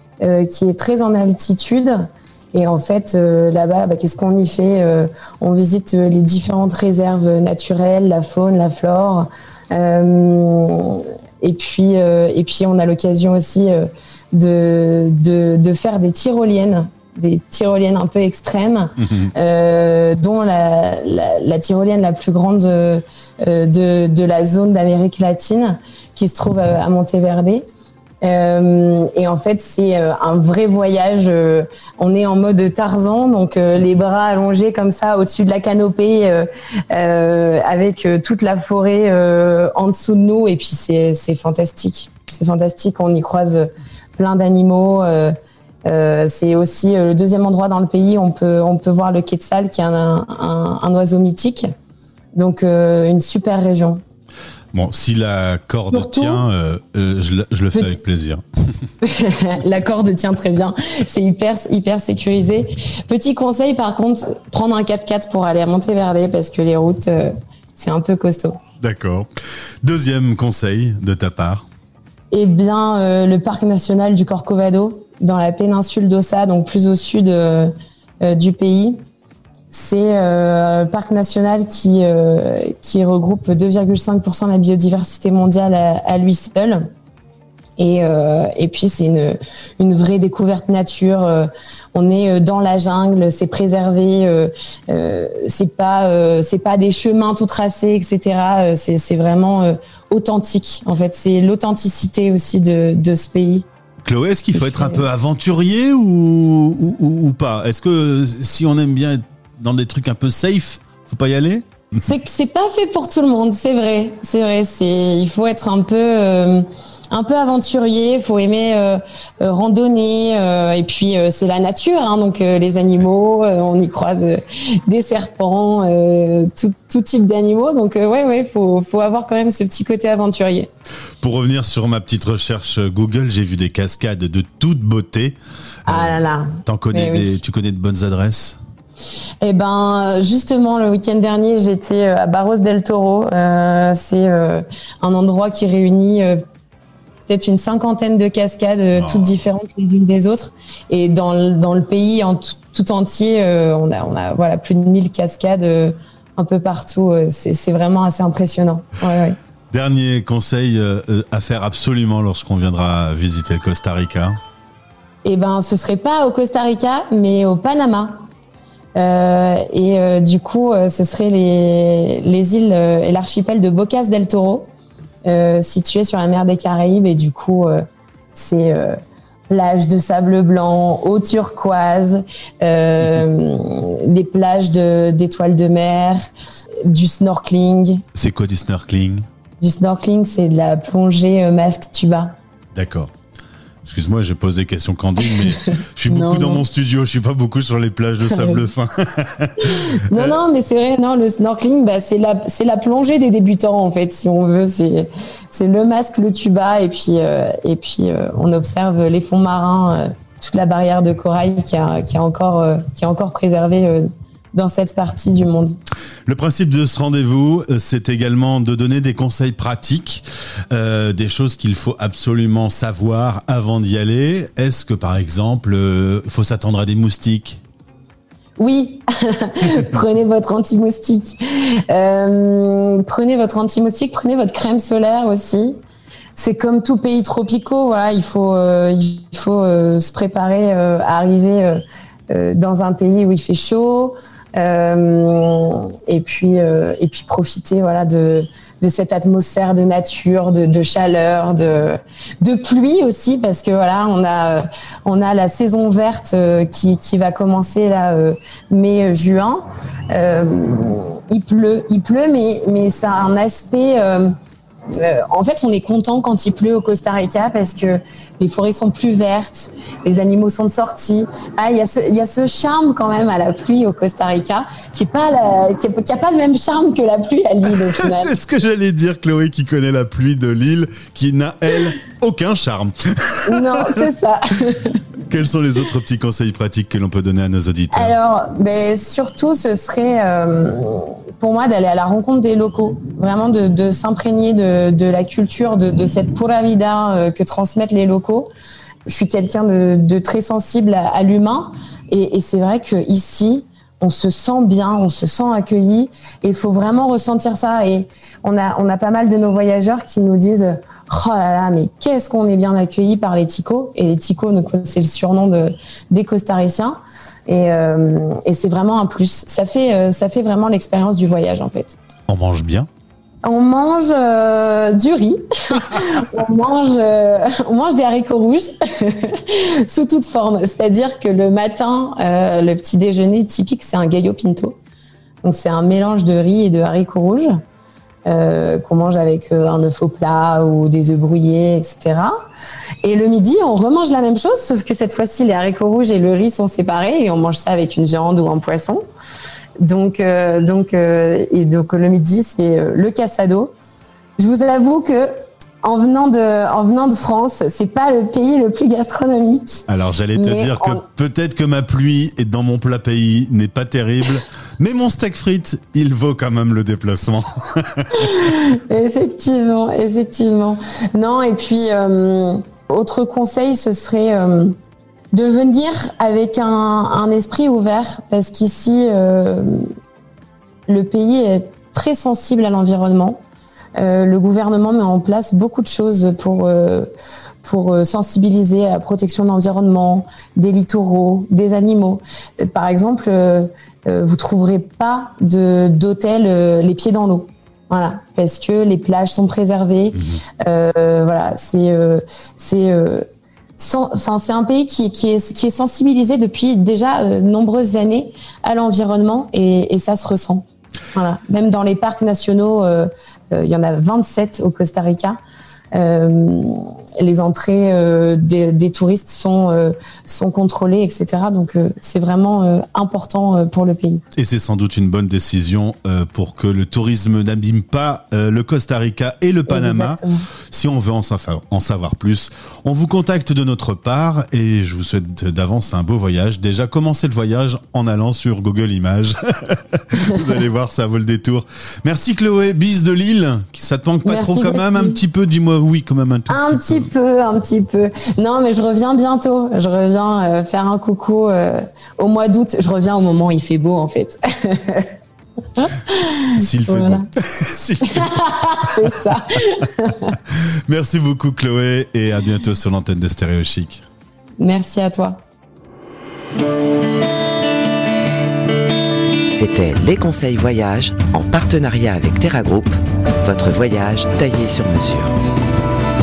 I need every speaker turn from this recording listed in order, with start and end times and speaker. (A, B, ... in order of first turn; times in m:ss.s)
0:00.2-0:27.6 A
0:19.0-0:19.3 B
0:28.2-0:45.3 A
0:45.8-0:51.7 A
0:52.4-0:54.0 A
0:54.7-0:58.4 B
0:55.9-0:56.4 A
0:57.7-0:58.0 A
0:59.0-1:08.6 A
1:08.8-1:09.3 B
1:09.8-1:11.6 B
1:12.3-1:19.0 A
1:19.7-1:26.9 A
1:27.8-1:43.7 A
1:44.0-1:51.6 B
1:44.5-1:45.1 A
1:52.0-2:10.7 A
2:11.2-2:18.6 B
2:15.9-2:17.4 A
2:19.4-2:26.4 A
2:27.3-2:39.4 A
2:29.0-2:29.4 B
2:39.7-2:44.4 B
2:45.2-2:48.2 A
2:49.0-2:54.7 A
2:55.2-2:57.8 A
2:58.3-2:59.0 A
2:59.5-3:06.2 A
3:06.9-3:08.0 A
3:08.1-3:09.2 B
3:09.6-3:12.4 A
3:12.7-3:13.1 B
3:13.8-3:20.4 B
3:15.4-3:16.6 A
3:18.3-3:18.6 A
3:20.1-3:35.8 A
3:36.3-3:47.6 B
3:48.6-3:55.8 A
3:56.4-4:24.3 A
4:24.9-4:38.3 A
4:37.7-4:44.0 B
4:43.5-4:45.0 A
4:45.3-4:48.2 B
4:47.9-4:58.5 A
4:59.1-5:22.0 A
5:22.3-5:22.9 B
5:23.4-5:34.8 A
5:35.4-5:37.5 A
5:38.3-5:42.4 A
5:43.0-5:49.0 A
5:49.8-5:53.7 A
5:54.4-5:55.3 A
5:55.8-6:01.0 A
5:59.9-6:08.4 B
6:08.2-6:14.7 A
6:15.3-6:19.9 A
6:20.9-6:23.4 A
6:24.0-6:27.1 A
6:27.6-6:43.3 A
6:40.2-6:40.4 B
6:43.8-6:55.4 A
6:55.9-7:04.2 A
7:04.4-7:27.1 B
7:09.7-7:10.5 A
7:24.2-7:25.2 A
7:26.5-7:35.1 A
7:35.8-7:37.3 A
7:36.6-7:38.8 B
7:38.0-7:40.4 A
7:40.9-7:44.0 B
7:44.6-7:45.4 A
7:49.5-7:55.4 C